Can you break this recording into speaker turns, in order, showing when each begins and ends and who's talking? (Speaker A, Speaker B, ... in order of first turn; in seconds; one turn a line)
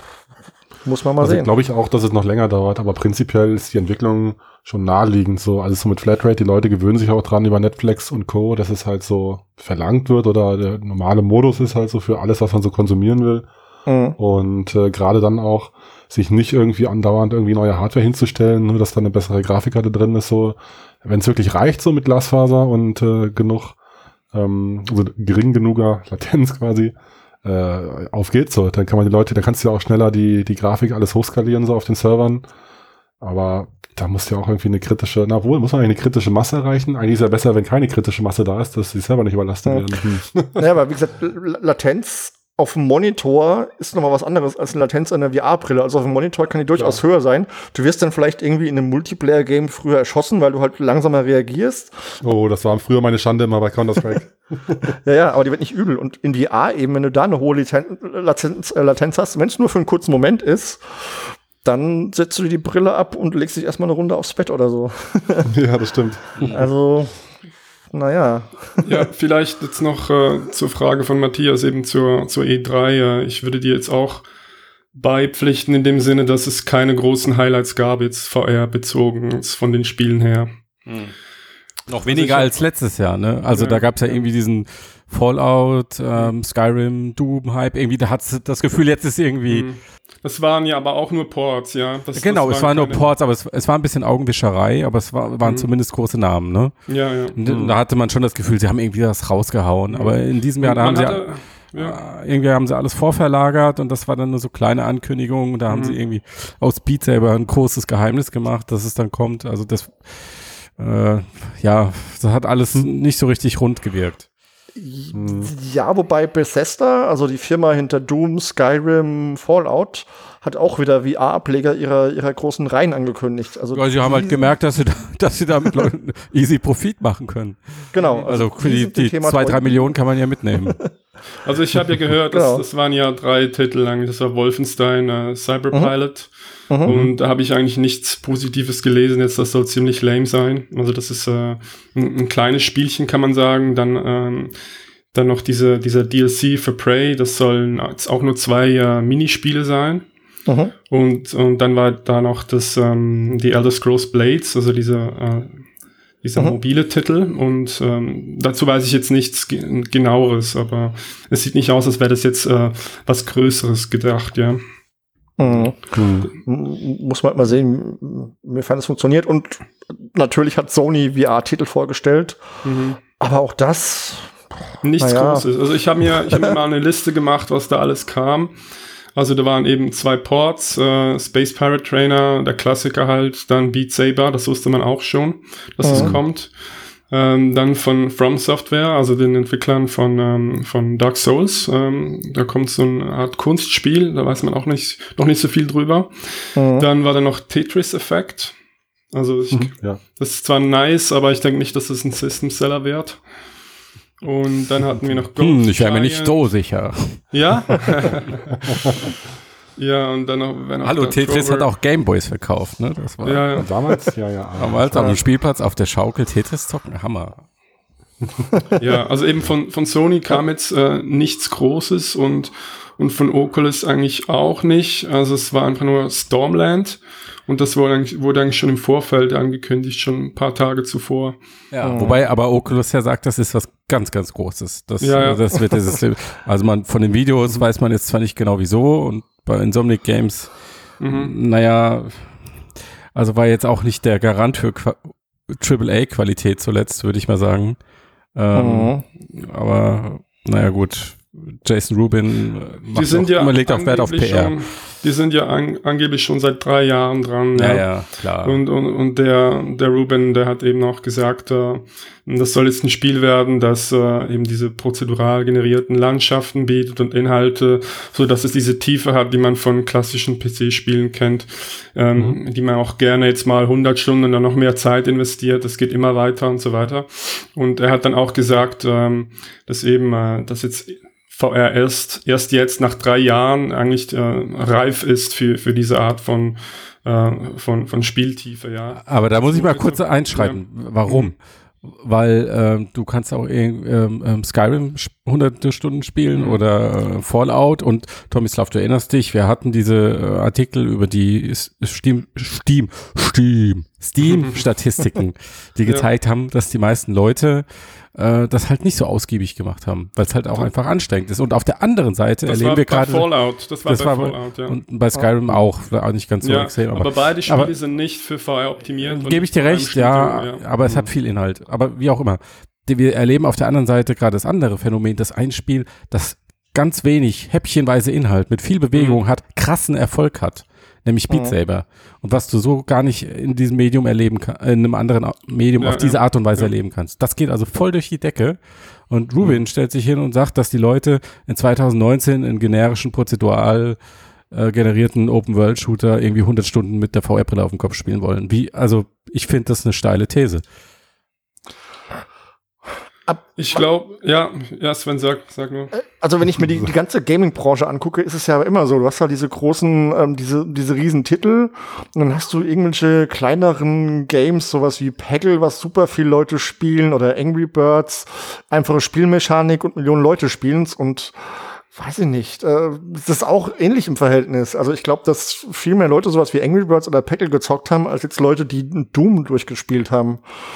Speaker A: 0.8-1.5
Speaker B: 1.2-13.5
Speaker A: 13.9-14.2
Speaker B: 14.2-23.8
Speaker B: 24.3-32.5
Speaker B: 33.2-40.6
Speaker A: 40.6-52.2
Speaker B: 52.2-55.0
Speaker A: 55.0-65.5
Speaker B: 65.5-66.5
Speaker A: 66.4-67.1
Speaker A: 67.9-69.0
Speaker C: 68.8-74.3
Speaker C: 74.9-80.5
Speaker D: 80.9-81.1
Speaker D: 81.9-89.7
Speaker C: 82.1-82.6
Speaker C: 83.5-84.2
Speaker C: 89.5-93.1
Speaker D: 92.2-96.8
Speaker C: 95.4-95.7
Speaker C: 96.9-97.4
Speaker D: 97.3-101.2
Speaker B: 97.5-97.8
Speaker C: 99.9-102.0
Speaker D: 101.8-114.3
Speaker C: 105.7-106.0
Speaker A: 114.8-124.4
Speaker B: 115.1-115.5
Speaker D: 123.7-130.8
Speaker A: 127.9-130.0
Speaker C: 128.0-128.2
Speaker C: 131.4-144.6
Speaker A: 132.3-132.6
Speaker B: 136.9-137.1
Speaker C: 145.1-150.1
Speaker A: 150.5-150.7
Speaker C: 150.9-155.7
Speaker C: 156.2-164.6
Speaker A: 165.4-172.4
Speaker B: 165.9-166.3
Speaker C: 172.6-173.0
Speaker A: 173.2-174.4
Speaker C: 174.8-198.6
Speaker A: 175.0-175.5
Speaker A: 176.3-176.6
Speaker A: 185.8-186.2
Speaker B: 185.9-186.2
Speaker A: 196.6-196.9
Speaker C: 199.1-203.3
Speaker B: 199.5-200.0
Speaker C: 204.2-206.4
Speaker D: 205.4-207.3
Speaker C: 207.3-208.5
Speaker C: 209.8-211.7
Speaker D: 210.8-213.6
Speaker C: 213.2-213.7
Speaker B: 213.6-215.2
Speaker D: 214.6-217.4
Speaker C: 218.8-231.4
Speaker D: 231.7-240.5
Speaker A: 231.8-232.2
Speaker C: 235.0-235.5
Speaker C: 241.0-241.3
Speaker D: 241.1-242.3
Speaker D: 243.1-247.8
Speaker D: 248.3-254.6
Speaker A: 248.6-249.0
Speaker C: 252.9-291.3
Speaker D: 257.6-258.6
Speaker D: 289.0-317.7
Speaker C: 296.3-296.6
Speaker C: 304.2-304.6
Speaker C: 312.4-314.8
Speaker C: 316.4-321.1
Speaker D: 319.0-344.0
Speaker C: 328.9-329.2
Speaker A: 331.3-331.6
Speaker C: 335.8-336.7
Speaker D: 344.5-350.6
Speaker A: 353.3-353.8
Speaker C: 353.6-355.9
Speaker A: 355.9-380.4